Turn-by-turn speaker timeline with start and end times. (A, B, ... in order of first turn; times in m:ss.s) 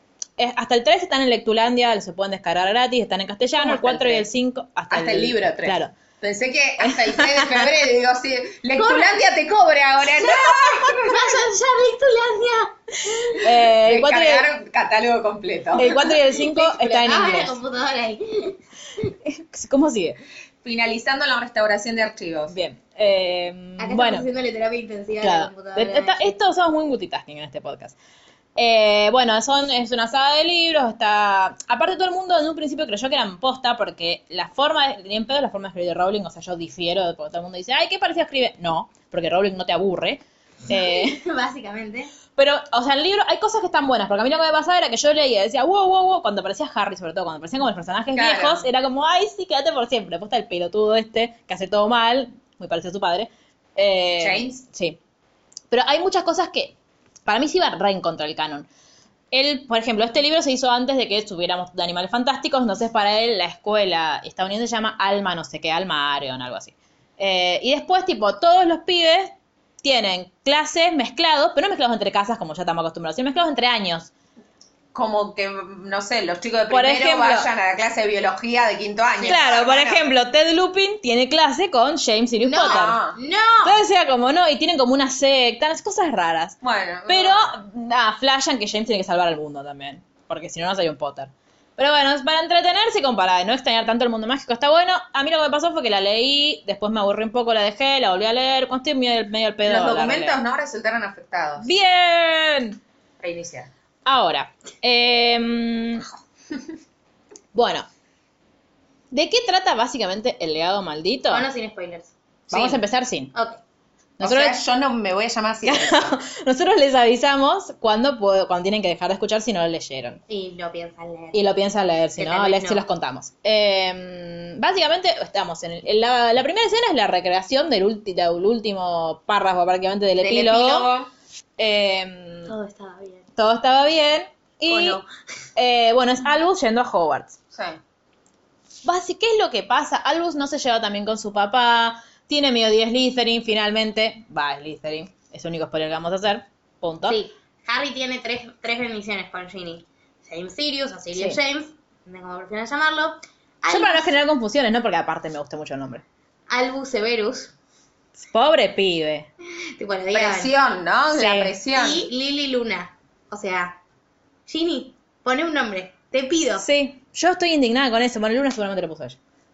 0:00.4-0:05.9 A
0:03.6-0:04.2 B
0:04.9-0:11.4 B
0:06.8-0:07.7 A
0:08.8-0:09.1 C
0:10.2-0:13.4 C
0:13.4-0:14.5 A
0:13.7-0:16.1 B
0:15.7-0:17.6 A
0:16.5-0:18.6 C
0:19.2-0:20.2 A
0:20.6-0:22.5 B
0:22.5-0:24.3 A
0:23.8-0:26.3 C
0:25.2-0:28.0 A
0:28.6-0:41.2 A
0:40.7-0:42.1 C
0:42.4-0:55.0 A
0:48.1-0:48.6 B
0:54.2-0:54.6 B
0:55.7-0:56.7 A
0:57.2-0:58.7 A
0:59.3-1:14.1 A
1:14.9-1:20.0 B
1:16.7-1:17.5 A
1:19.2-1:23.0 A
1:22.4-1:23.8 C
1:22.6-1:23.2 B
1:23.6-1:40.4 A
1:26.6-1:27.6 B
1:39.6-1:41.7 B
1:41.6-1:42.8 A
1:43.2-1:43.7 B
1:44.0-1:46.0 A
1:47.5-1:47.8 A
1:49.1-1:51.4 A
1:51.3-1:52.1 C
1:52.5-1:52.8 B
1:52.5-1:53.3 A
1:53.3-1:53.6 C
1:54.2-1:56.1 B
1:54.2-1:54.6 A
1:55.6-2:00.2 A
2:00.3-2:01.4 C
2:01.3-2:10.9 A
2:02.2-2:02.8 C
2:10.2-2:11.1 B
2:11.6-2:12.5 A
2:12.4-2:13.2 C
2:13.4-2:15.0 A
2:14.7-2:15.0 C
2:15.6-2:17.4 A
2:17.5-2:17.8 B
2:18.8-2:27.2 A
2:27.1-2:34.1 C
2:33.7-2:36.0 A
2:36.5-2:37.5 C
2:38.2-2:39.3 A
2:39.8-2:40.5 C
2:40.1-2:42.1 B
2:41.1-2:41.5 A
2:41.7-2:43.8 C
2:44.5-2:46.6 C
2:46.6-2:49.2 A